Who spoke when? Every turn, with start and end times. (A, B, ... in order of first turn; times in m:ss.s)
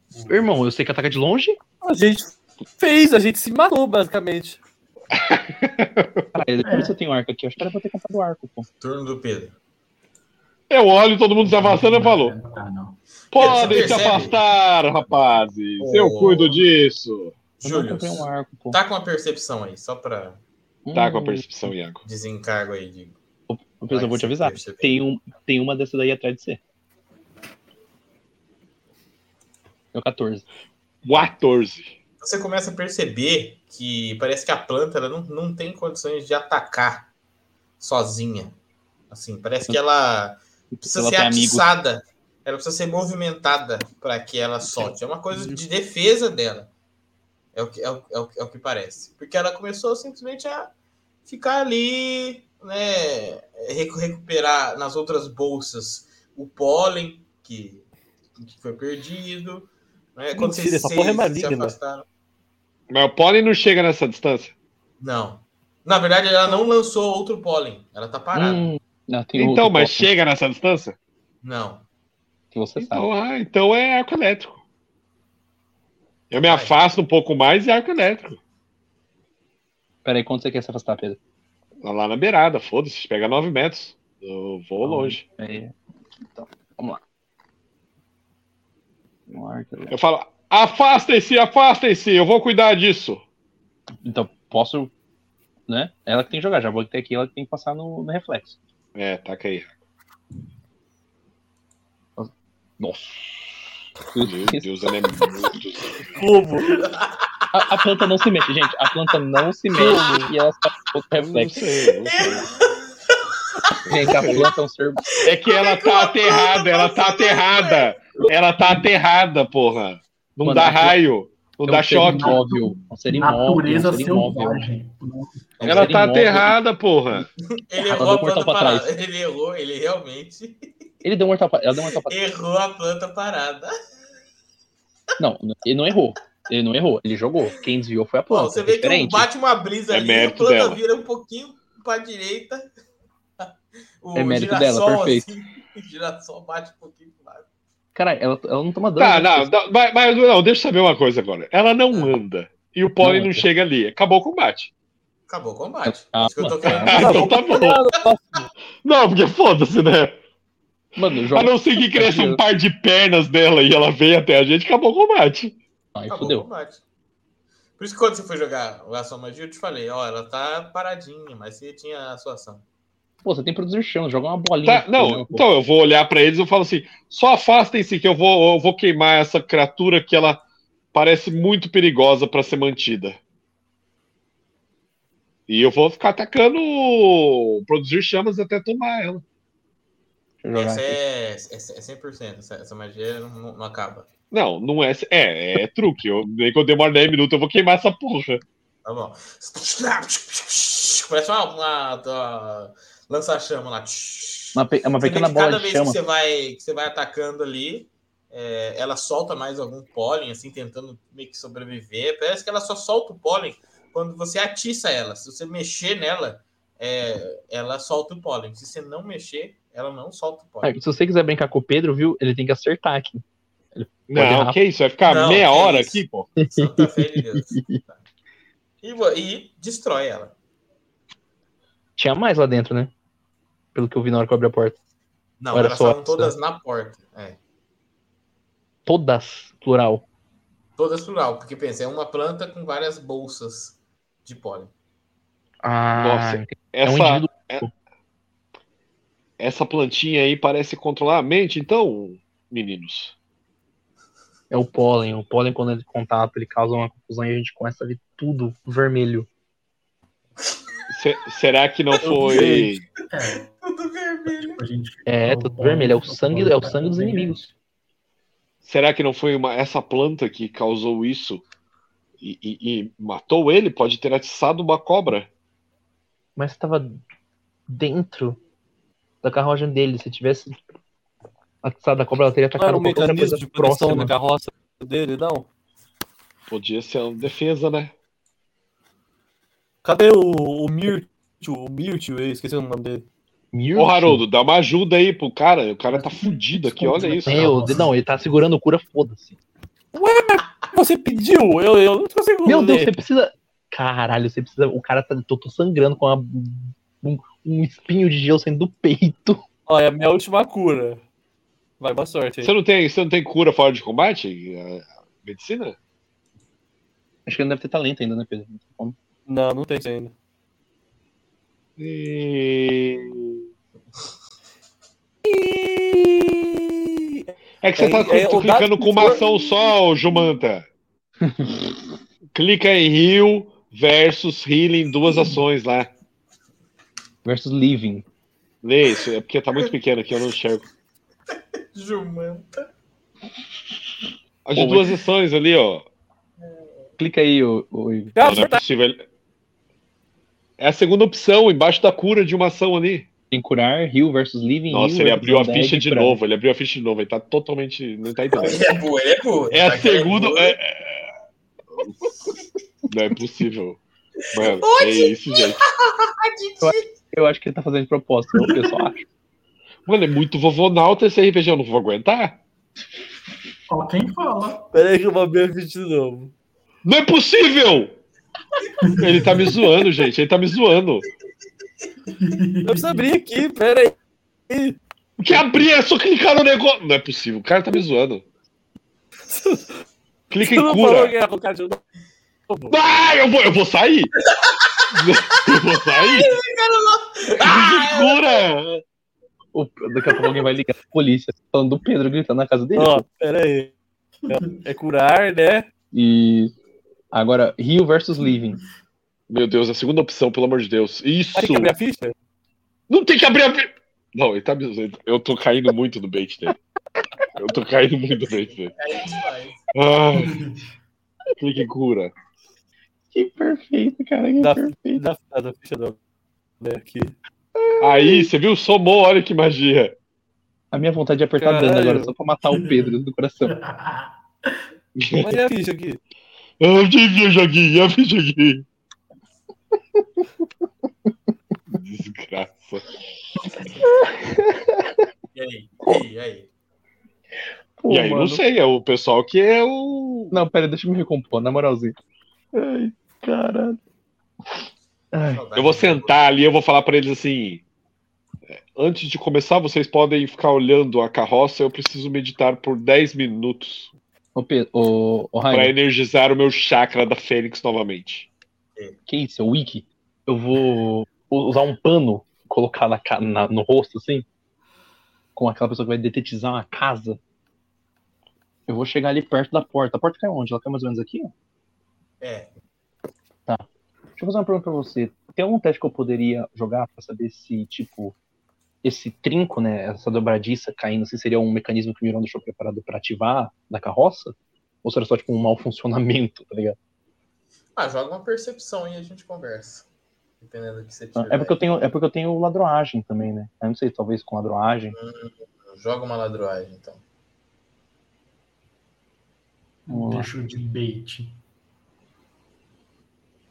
0:00.1-0:00.5 A
0:00.3-0:01.6 B
0:01.8-0:04.6 C
0:05.1-0:06.3 D
0:06.3-0:08.7 B
0:06.6-0:06.9 A
0:08.8-0:09.5 E
0:10.7-0:12.3 D
0:11.4-0:14.3 A
0:13.3-0:17.4 D
0:13.3-0:14.4 E
0:15.8-0:16.6 E
0:17.6-0:18.8 B
0:17.6-0:20.4 E
0:20.8-0:21.4 B
0:20.9-0:22.0 D
0:22.0-0:23.2 E
0:23.5-0:26.6 B
0:23.9-0:25.0 E
0:29.9-0:30.4 B
0:31.0-0:31.9 D
0:32.2-0:37.1 E
0:37.8-0:38.6 E
0:39.1-0:46.7 E
0:40.7-0:41.6 B
0:47.5-0:50.7 E
0:51.2-0:57.8 E
0:58.4-1:02.0 E
1:00.3-1:01.8 C
1:02.9-1:04.5 D
1:05.0-1:08.7 E
1:08.3-1:10.1 B
1:09.4-1:11.0 D
1:11.4-1:11.8 E
1:12.5-1:13.1 B
1:12.8-1:14.6 D
1:16.3-1:18.4 D
1:16.4-1:16.7 E
1:20.0-1:21.2 B
1:21.8-1:25.2 D
1:24.8-1:25.7 B
1:26.3-1:27.0 B
1:29.3-1:30.0 B
1:29.9-1:33.2 D
1:34.0-1:34.9 B
1:35.7-1:38.6 B
1:38.9-1:39.7 D
1:42.2-1:43.4 B
1:44.1-1:44.7 B
1:44.2-1:46.2 D
1:46.2-1:46.8 C
1:46.7-1:47.6 E
1:47.5-1:51.5 B
1:49.7-1:50.3 C
1:51.2-1:52.5 D
1:51.8-1:53.1 E
1:53.6-1:54.4 E
1:53.8-1:55.0 B
1:53.9-1:54.5 D
1:55.2-1:58.0 E
1:55.2-2:02.4 D
2:00.4-2:01.0 B
2:01.6-2:04.7 B
2:02.0-2:05.5 A
2:05.6-2:06.0 E
2:05.6-2:06.6 B
2:05.6-2:07.3 D
2:07.4-2:10.7 E
2:07.8-2:08.9 B
2:11.0-2:12.2 B
2:12.0-2:13.7 E
2:15.2-2:19.3 B
2:18.3-2:22.7 E
2:19.9-2:20.8 D
2:24.0-2:27.4 E
2:24.1-2:25.3 B
2:27.9-2:29.5 B
2:29.0-2:34.7 D
2:31.9-2:32.2 E
2:33.0-2:33.5 B
2:35.3-2:38.0 E
2:35.8-2:37.2 B
2:36.8-2:37.8 D
2:36.9-2:38.2 C
2:38.8-2:40.2 D
2:40.9-2:42.4 B
2:41.3-2:45.6 D
2:45.9-2:46.5 B
2:46.1-2:46.8 E
2:47.8-2:52.6 E
2:53.2-2:55.4 B
2:54.6-3:00.4 D
3:00.9-3:03.2 D
3:05.5-3:09.2 D
3:10.4-3:11.0 B
3:10.5-3:14.1 E
3:14.3-3:18.4 D
3:18.8-3:40.7 E
3:24.5-3:26.0 B
3:40.6-3:43.2 B
3:43.7-3:44.6 B
3:44.1-3:46.3 D
3:45.0-3:48.0 E
3:46.4-3:47.8 B
3:48.8-3:50.3 E
3:52.0-3:52.9 B
3:53.7-3:54.8 B
3:55.4-3:57.4 E
3:55.5-3:56.3 B
3:58.8-4:00.0 B
4:00.8-4:04.7 E
4:05.6-4:07.7 B
4:06.0-4:07.6 D
4:09.4-4:13.1 D
4:14.5-4:19.3 B
4:20.9-4:22.8 D
4:22.0-4:22.8 C
4:23.1-4:23.5 A
4:23.5-4:24.6 E
4:24.3-4:27.5 A
4:25.0-4:27.4 B
4:28.6-4:31.4 D
4:32.2-4:35.3 D
4:36.4-4:37.0 B
4:37.7-4:38.4 B
4:39.2-4:40.6 B
4:41.6-4:44.1 B
4:42.6-4:45.5 C
4:46.5-4:47.9 D
4:49.8-4:53.0 C
4:53.5-4:54.2 B
4:53.7-4:57.6 D
4:55.9-4:57.9 A
4:57.2-4:59.4 B
4:59.9-5:02.9 C
5:02.4-5:09.4 B
5:09.6-5:11.0 C
5:11.8-5:12.5 C
5:12.4-5:15.8 D
5:17.2-5:19.0 B
5:19.3-5:20.1 C
5:21.8-5:23.4 D
5:25.2-5:29.2 C
5:27.6-5:30.6 D
5:32.3-5:35.9 D
5:37.2-5:38.0 B
5:38.6-5:40.6 D
5:41.7-5:42.7 E
5:44.4-5:45.8 D
5:44.6-5:44.8 B
5:47.0-5:48.1 B
5:48.2-5:48.6 C
5:48.2-5:49.0 D
5:50.6-5:53.1 D
5:53.3-5:56.2 B
5:54.7-5:58.7 D
5:58.3-6:00.6 E
5:59.5-6:01.0 D
6:01.7-6:02.0 D
6:02.9-6:03.8 D
6:04.3-6:05.6 D
6:04.3-6:06.9 E
6:06.6-6:09.0 B
6:09.8-6:12.4 D
6:13.7-6:14.7 A
6:14.7-6:16.3 C
6:16.8-6:18.0 D
6:18.8-6:19.5 A
6:19.0-6:21.0 D
6:22.1-6:23.1 A
6:22.6-6:23.9 C
6:24.5-6:24.8 C
6:25.2-6:28.2 D
6:29.3-6:29.7 C
6:30.3-6:31.1 D
6:30.4-6:31.8 C
6:32.5-6:32.7 C
6:32.7-6:34.1 D
6:34.9-6:36.4 D
6:35.9-6:38.4 E
6:37.4-6:38.8 D
6:39.5-6:43.0 B
6:42.8-6:43.7 C
6:44.3-6:45.7 C
6:45.9-6:46.5 B
6:47.1-6:48.6 B
6:49.3-6:51.7 D
6:51.4-6:52.1 C
6:52.9-6:56.6 D
6:57.3-6:58.7 D
6:58.4-6:59.6 E
6:59.7-7:00.5 D
7:00.1-7:00.6 A
7:01.4-7:02.1 D
7:03.1-7:05.0 B
7:04.4-7:06.0 C
7:06.6-7:07.1 C
7:07.6-7:08.3 B
7:07.8-7:09.9 D
7:10.7-7:13.5 B
7:11.4-7:12.1 C
7:12.5-7:12.9 A
7:13.4-7:14.6 A
7:15.0-7:15.4 D
7:15.2-7:16.0 C
7:16.6-7:18.6 D
7:21.7-7:22.8 D
7:24.0-7:24.8 B
7:25.3-7:26.5 E
7:27.8-7:28.4 B
7:27.9-7:30.4 D
7:30.3-7:31.9 B
7:32.5-7:33.8 B
7:35.1-7:35.4 B
7:35.3-7:36.2 E
7:35.5-7:37.6 D
7:38.5-7:43.9 D
7:44.3-7:45.7 B
7:45.5-7:48.3 D
7:49.1-7:54.2 B
7:55.3-7:57.2 B
7:58.7-8:01.3 B
8:02.2-8:02.5 E
8:04.2-8:08.1 B
8:08.8-8:16.8 B
8:17.8-8:19.8 E
8:20.4-8:21.6 E
8:21.2-8:25.0 B
8:24.9-8:27.0 E
8:29.8-8:31.4 A
8:29.9-8:30.3 B